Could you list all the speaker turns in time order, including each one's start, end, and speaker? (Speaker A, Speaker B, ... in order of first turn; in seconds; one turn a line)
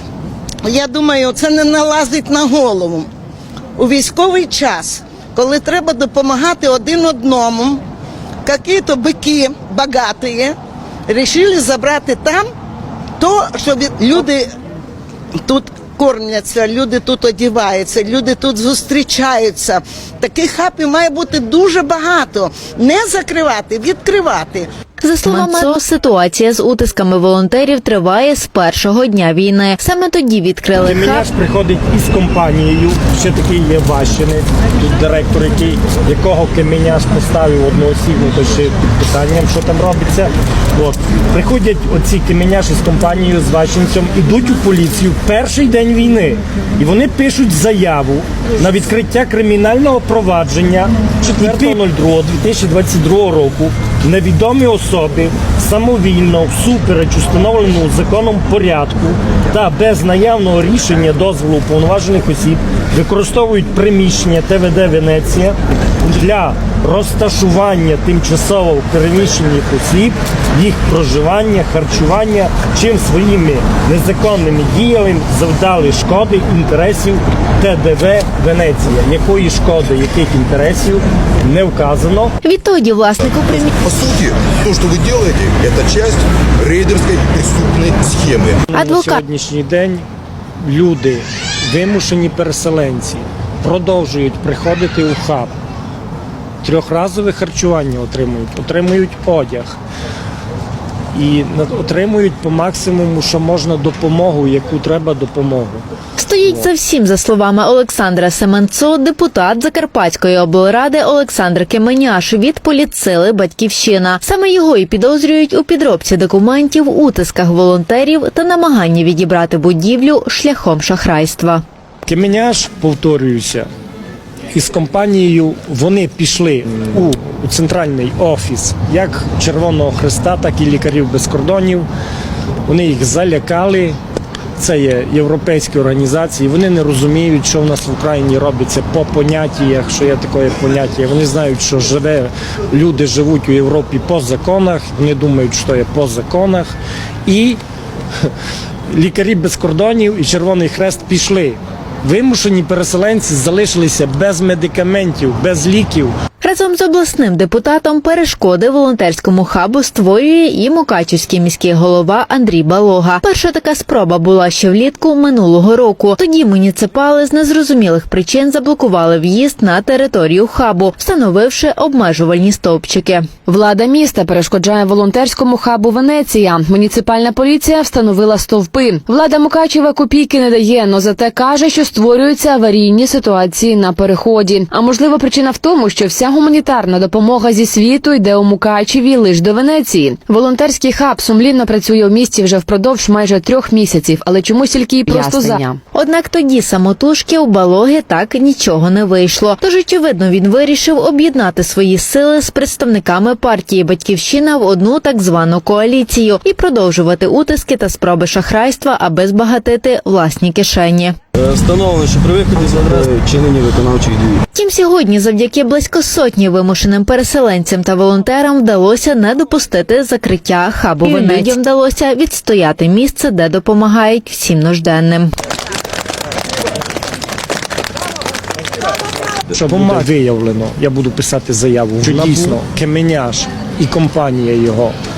Speaker A: 0.7-3.1
Speaker A: 3.8-7.8
Speaker A: 8.4-10.6
Speaker A: 11.1-12.5
Speaker A: 13.2-14.5
Speaker A: 15.4-24.7
Speaker B: 25.0-31.3
Speaker C: 30.8-82.3
Speaker B: 82.4-83.7
Speaker D: 83.4-88.6
Speaker C: 88.7-90.0
Speaker B: 88.7-89.2
Speaker C: 90.6-95.5
Speaker C: 96.6-99.8
Speaker C: 101.1-105.8
Speaker B: 106.2-121.6
Speaker C: 106.4-106.7
Speaker C: 122.1-123.7
Speaker C: 124.5-131.9
Speaker C: 132.7-134.0
Speaker C: 134.6-147.6
Speaker C: 148.9-156.1
Speaker B: 156.4-173.3
Speaker E: 173.4-195.8
Speaker B: 195.9-211.1
Speaker F: 211.4-214.4
Speaker B: 214.5-225.3
Speaker E: 221.2-221.4
Speaker C: 229.5-235.0
Speaker F: 229.7-230.0
Speaker F: 232.2-232.5